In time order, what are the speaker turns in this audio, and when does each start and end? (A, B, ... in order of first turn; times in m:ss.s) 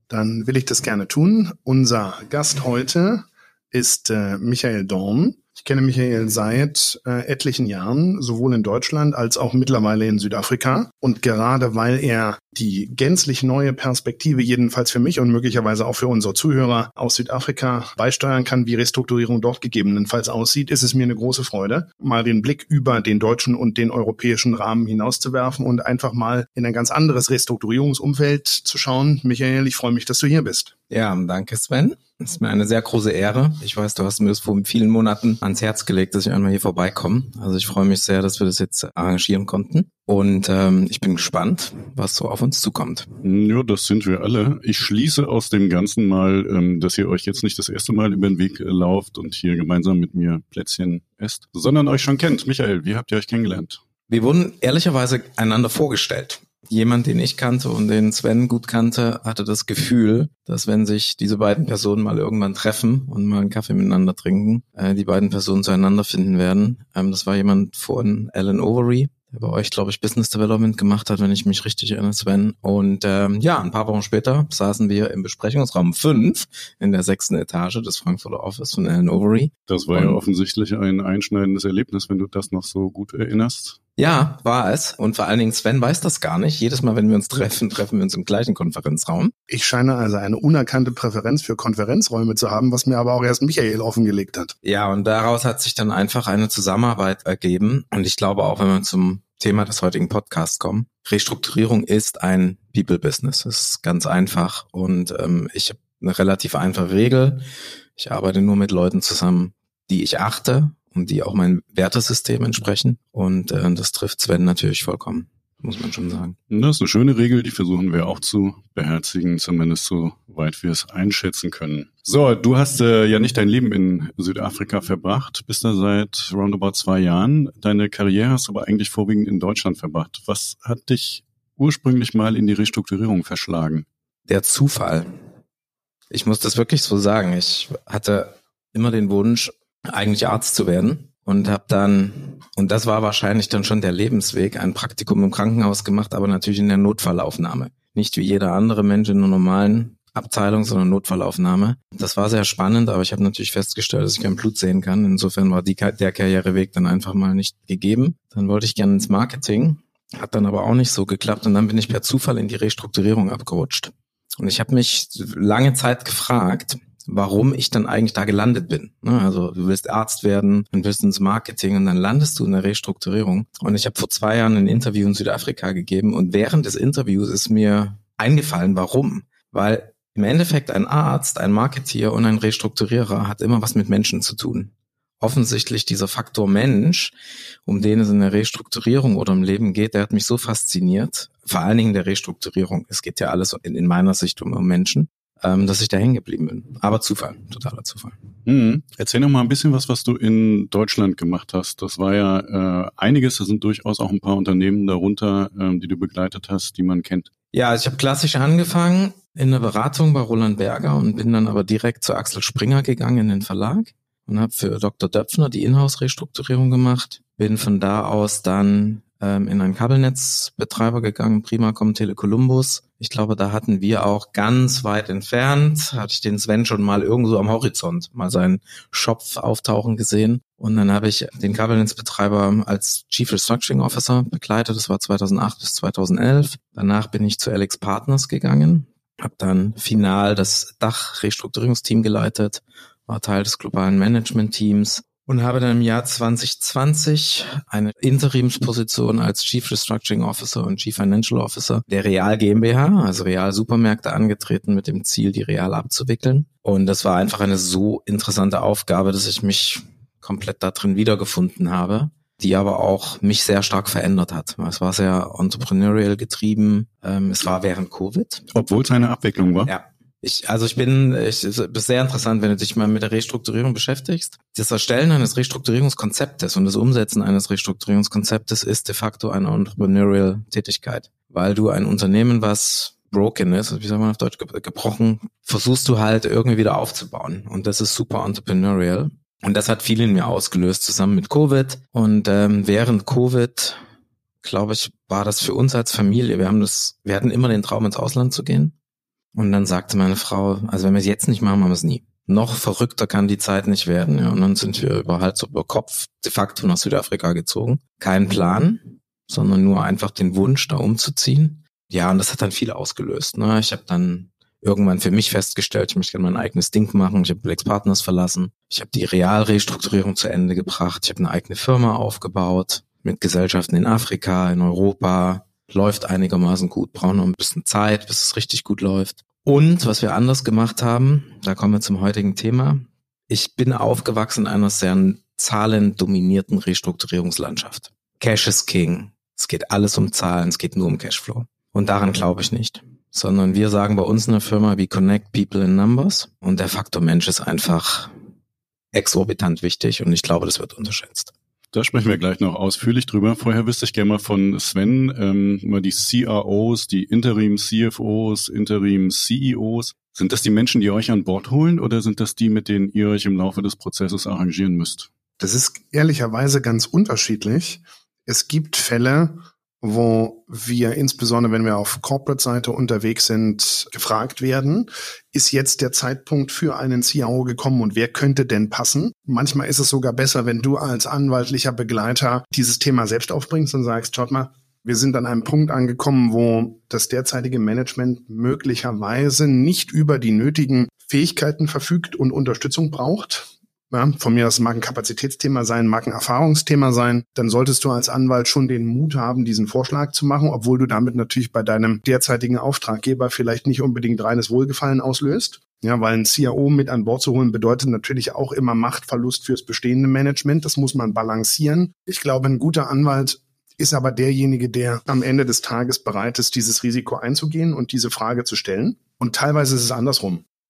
0:00.1-0:30.7 A
0:30.9-0:43.1 B
0:43.2-0:53.8 C
0:54.1-1:20.2 B
1:19.7-1:23.8 C
1:24.0-1:29.3 B
1:29.5-1:34.5 A
1:34.6-1:56.4 B
1:56.5-2:13.8 C
2:14.3-2:15.1 B
2:16.1-3:07.1 B
3:07.6-3:18.2 B
3:18.4-3:27.3 C
3:27.5-4:28.5 B
4:28.5-4:29.7 C
4:29.6-4:53.8 B
4:54.4-4:58.7 B
4:59.3-5:48.1 B
5:48.9-5:51.3 B
5:51.7-6:05.1 C
6:05.4-7:00.4 A